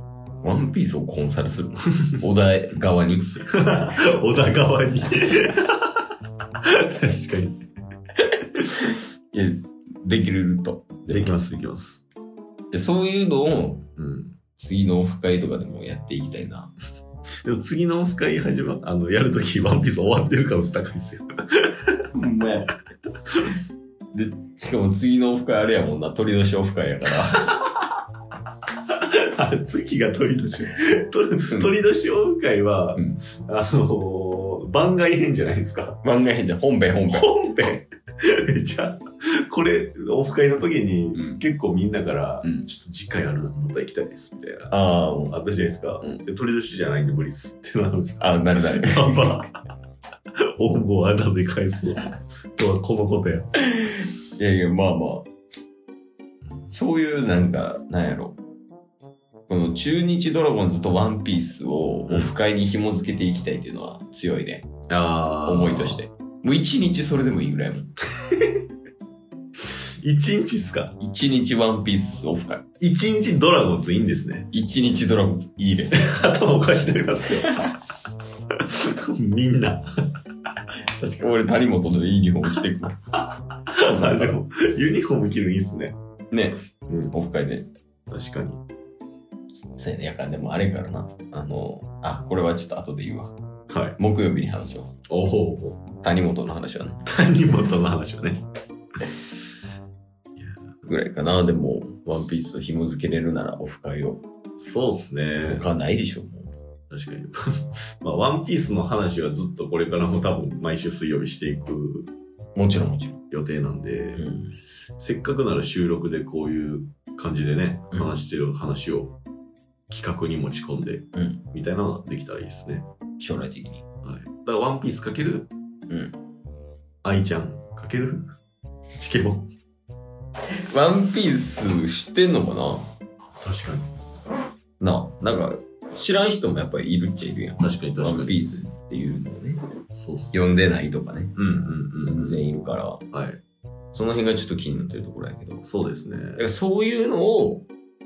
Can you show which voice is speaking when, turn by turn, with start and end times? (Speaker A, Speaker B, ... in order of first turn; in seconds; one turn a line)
Speaker A: 0.4-3.4
Speaker B: 3.5-5.9
Speaker B: 6.6-7.6
Speaker A: 9.3-11.4
Speaker B: 11.1-12.0
Speaker A: 12.7-13.8
Speaker B: 14.0-14.4
Speaker A: 14.6-16.7
Speaker B: 17.4-22.0
Speaker A: 22.1-22.7
Speaker A: 24.1-27.6
Speaker B: 28.9-36.0
Speaker A: 36.0-37.3
Speaker B: 37.1-44.7
Speaker A: 41.1-41.4
Speaker A: 44.7-45.4
Speaker B: 45.3-49.5
Speaker A: 48.2-49.4
Speaker B: 50.6-53.5
Speaker A: 53.7-55.3
Speaker A: 56.7-58.4
Speaker A: 59.5-64.7
Speaker B: 64.9-66.0
Speaker A: 65.4-67.9
Speaker B: 68.3-68.5
Speaker B: 69.6-70.9
Speaker A: 71.0-72.6
Speaker B: 72.8-74.5
Speaker A: 74.5-76.1
Speaker B: 75.9-77.7
Speaker B: 78.6-79.9
Speaker A: 81.0-84.3
Speaker B: 83.7-86.0
Speaker A: 86.3-87.7
Speaker B: 86.9-87.1
Speaker B: 88.1-88.6
Speaker A: 89.8-93.3
Speaker B: 93.7-94.0
Speaker A: 94.0-94.9
Speaker B: 95.1-95.8
Speaker A: 96.0-97.0
Speaker B: 97.0-98.4
Speaker A: 100.8-104.2
Speaker B: 104.6-105.7
Speaker A: 105.4-106.5
Speaker B: 106.9-112.1
Speaker A: 112.5-113.2
Speaker B: 113.3-114.3
Speaker A: 114.2-114.5
Speaker B: 115.0-119.2
Speaker A: 117.9-118.2
Speaker B: 119.9-122.9
Speaker A: 121.1-121.4
Speaker A: 123.2-123.8
Speaker B: 124.0-125.5
Speaker A: 125.9-126.2
Speaker B: 127.0-128.4
Speaker B: 129.0-129.5
Speaker A: 130.7-132.9
Speaker B: 133.4-133.9
Speaker A: 134.8-139.6
Speaker B: 137.6-138.5
Speaker B: 139.9-140.4
Speaker A: 140.3-141.3
Speaker B: 141.3-142.4
Speaker A: 142.0-143.0
Speaker B: 143.1-143.4
Speaker A: 143.9-145.6
Speaker B: 145.6-146.4
Speaker A: 146.3-147.7